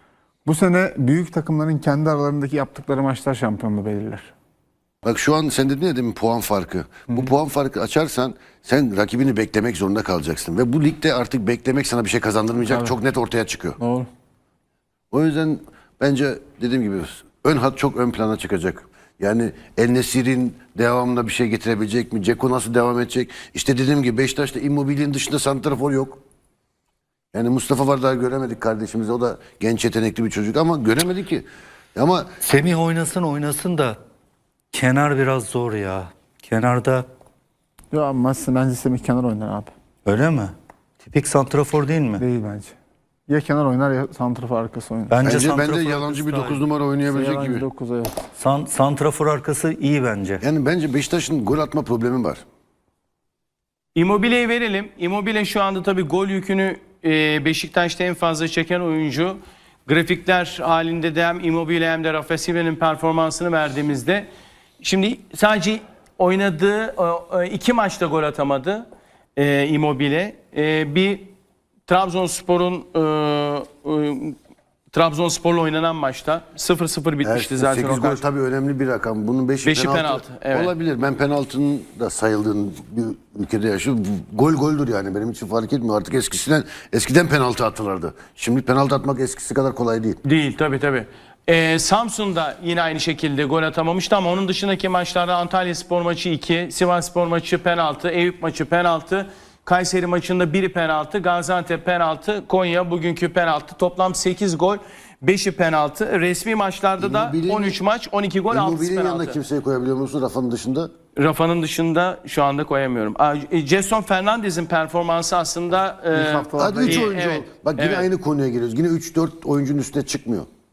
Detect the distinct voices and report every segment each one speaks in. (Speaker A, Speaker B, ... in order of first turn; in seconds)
Speaker A: 0.4-4.3, 12.6-12.9, 13.8-14.1, 37.9-39.7, 42.2-42.7, 43.3-45.2, 47.1-48.2, 116.1-117.1
Speaker B: 5.0-13.8, 15.1-26.2, 27.3-32.3, 45.2-47.6, 50.4-52.4, 77.2-90.2, 107.0-107.8, 108.5-110.9, 116.6-120.5
Speaker C: 32.4-34.0, 34.7-37.0, 40.0-42.2, 45.1-46.6, 48.4-50.4
Speaker D: 53.9-64.3, 64.8-71.3, 71.9-74.4, 74.9-78.2, 79.6-80.7, 90.2-109.4, 111.2-118.1